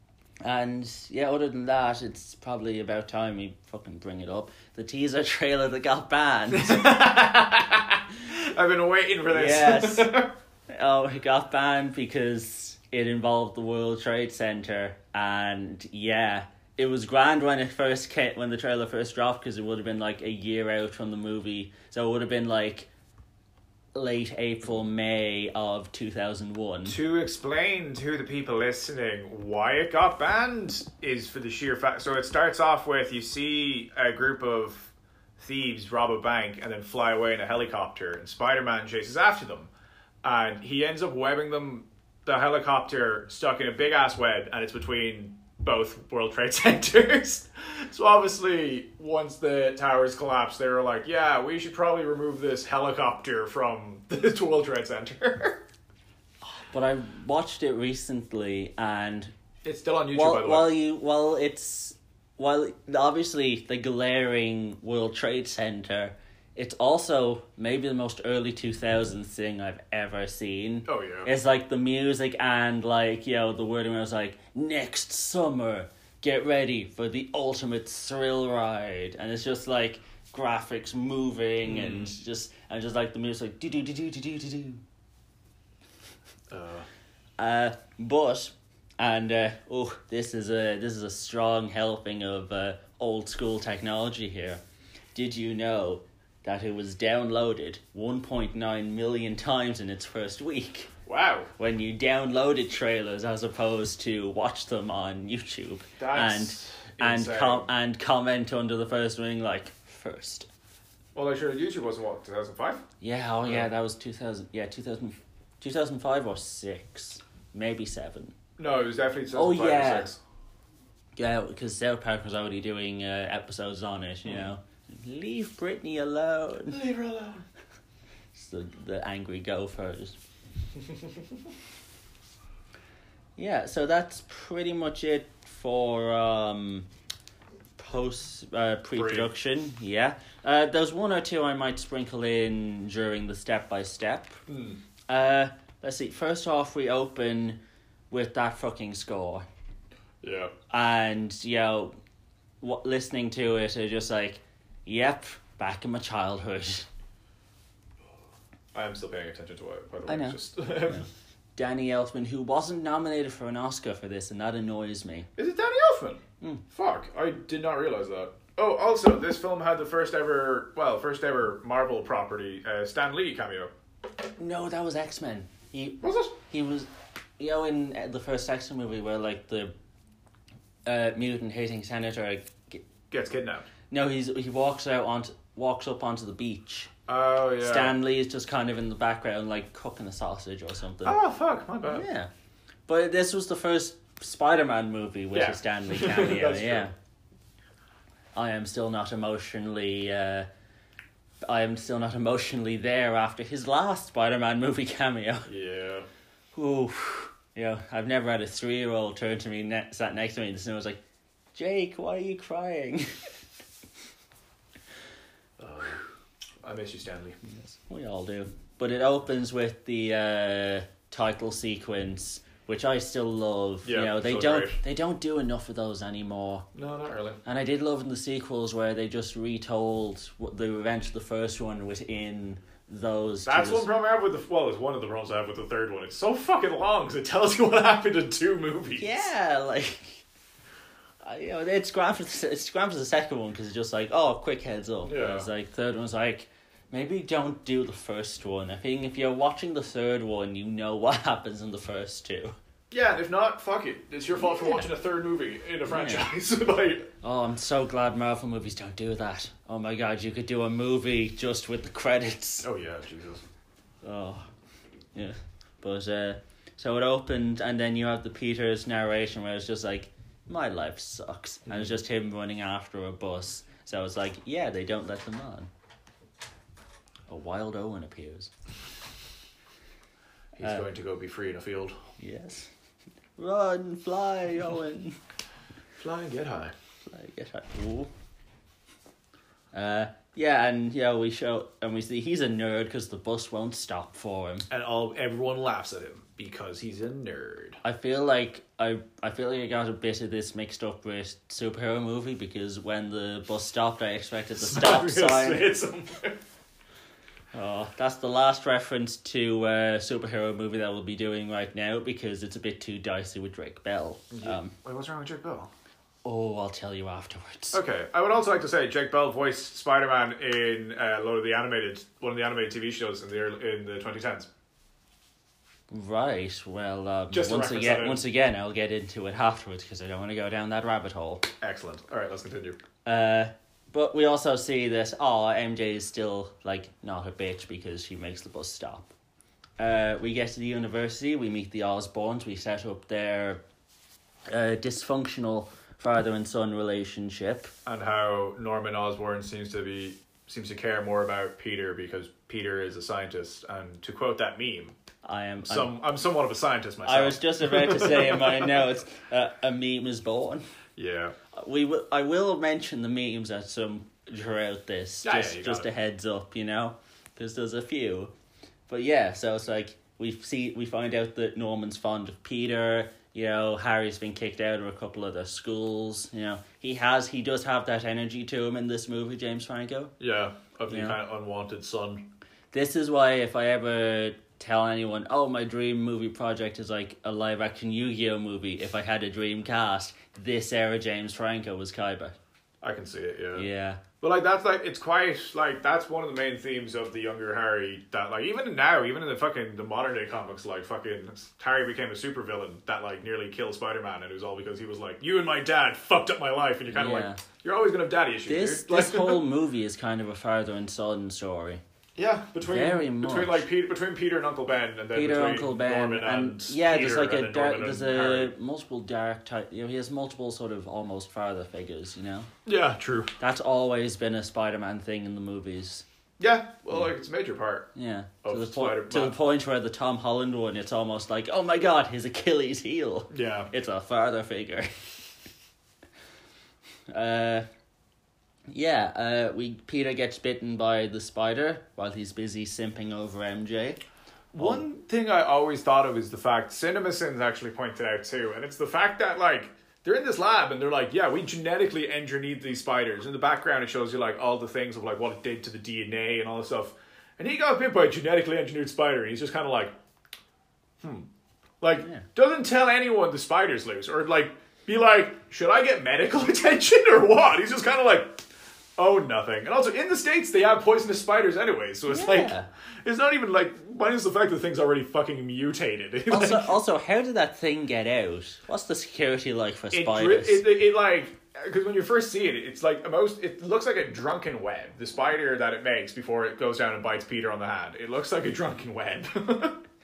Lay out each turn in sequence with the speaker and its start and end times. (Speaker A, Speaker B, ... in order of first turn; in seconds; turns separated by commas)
Speaker A: 0.4-6.9, Speaker B: 6.5-10.3, Speaker A: 9.3-22.9, Speaker A: 23.9-27.0, Speaker B: 26.9-39.7, Speaker B: 40.2-55.6, Speaker A: 56.4-59.3, Speaker B: 59.6-60.7, Speaker A: 60.1-84.8, Speaker B: 70.9-71.3, Speaker B: 81.6-82.1, Speaker B: 86.5-86.9, Speaker A: 87.4-94.6, Speaker A: 95.1-100.9, Speaker B: 101.0-101.5, Speaker A: 101.6-110.5, Speaker B: 106.0-107.7, Speaker B: 111.1-112.8, Speaker A: 113.0-118.3, Speaker B: 118.6-120.2, Speaker A: 119.3-120.1, Speaker A: 121.2-126.8, Speaker B: 126.7-127.4, Speaker A: 128.3-130.2, Speaker A: 133.4-136.9, Speaker A: 137.8-144.4, Speaker B: 138.9-139.3, Speaker B: 144.5-144.8, Speaker A: 145.1-147.6, Speaker A: 148.1-149.4, Speaker B: 150.2-150.5, Speaker A: 150.7-151.9, Speaker A: 152.6-156.9, Speaker B: 158.7-161.1, Speaker A: 160.1-165.3, Speaker B: 165.4-173.7, Speaker A: 174.4-179.7, Speaker B: 176.0-176.3, Speaker A: 180.9-182.8, Speaker B: 183.1-183.7, Speaker A: 183.9-186.9, Speaker B: 187.1-187.9, Speaker A: 187.6-191.2, Speaker B: 191.1-192.1, Speaker A: 191.9-192.3, Speaker A: 192.9-196.9, Speaker B: 195.3-196.9, Speaker A: 198.3-200.5, Speaker A: 201.4-205.5, Speaker B: 205.5-206.1, Speaker A: 206.5-211.0, Speaker A: 211.6-213.2, Speaker B: 215.6-216.0, Speaker B: 216.6-217.4, Speaker A: 217.4-226.7, Speaker B: 223.8-224.8, Speaker B: 226.7-227.4, Speaker A: 227.4-233.9, Speaker B: 233.4-239.3, Speaker A: 239.0-240.2, Speaker A: 241.2-252.6, Speaker B: 245.1-245.5, Speaker B: 252.9-257.1, Speaker A: 255.9-256.3, Speaker A: 257.2-262.7, Speaker B: 262.6-263.4, Speaker A: 264.0-264.5, Speaker A: 265.1-275.7, Speaker A: 277.3-278.5, Speaker B: 280.6-282.0, Speaker A: 280.6-280.9, Speaker A: 282.2-282.7, Speaker A: 283.4-285.2, Speaker B: 286.0-286.7, Speaker A: 287.1-288.1, Speaker A: 289.7-294.7, Speaker B: 294.7-297.8, Speaker A: 297.8-305.7, Speaker B: 304.6-306.4, Speaker A: 307.5-314.7, Speaker B: 314.3-315.7, Speaker A: 316.2-317.8, Speaker B: 317.7-324.5, Speaker A: 325.9-331.5, Speaker B: 327.3-328.2, Speaker B: 331.6-332.8, Speaker A: 333.1-339.1, Speaker A: 339.8-343.6, Speaker A: 344.5-347.7, Speaker B: 347.9-354.9, Speaker A: 355.2-355.9, Speaker B: 355.6-358.8, Speaker A: 357.1-360.6, Speaker B: 360.9-361.4, Speaker A: 361.5-368.3, Speaker B: 365.2-365.9, Speaker A: 368.9-380.1, Speaker B: 380.2-382.3, Speaker A: 380.9-381.2, Speaker A: 382.7-392.4, Speaker B: 392.8-393.7, Speaker A: 393.6-394.0, Speaker B: 394.2-409.4, Speaker A: 406.9-407.4, Speaker A: 408.5-411.8, Speaker B: 412.1-418.5, Speaker A: 412.6-413.6, Speaker A: 415.1-422.5, Speaker B: 422.6-423.3, Speaker A: 423.4-426.1, Speaker B: 426.4-427.9, Speaker A: 427.9-435.1, Speaker B: 428.4-429.4, Speaker B: 433.3-433.7, Speaker A: 437.1-437.6, Speaker A: 438.7-444.0, Speaker B: 444.5-459.9, Speaker A: 444.6-444.8, Speaker B: 461.0-461.3, Speaker B: 461.8-468.4, Speaker A: 462.0-462.2, Speaker B: 469.0-476.8, Speaker A: 472.1-472.7, Speaker A: 476.3-480.7, Speaker B: 479.9-489.8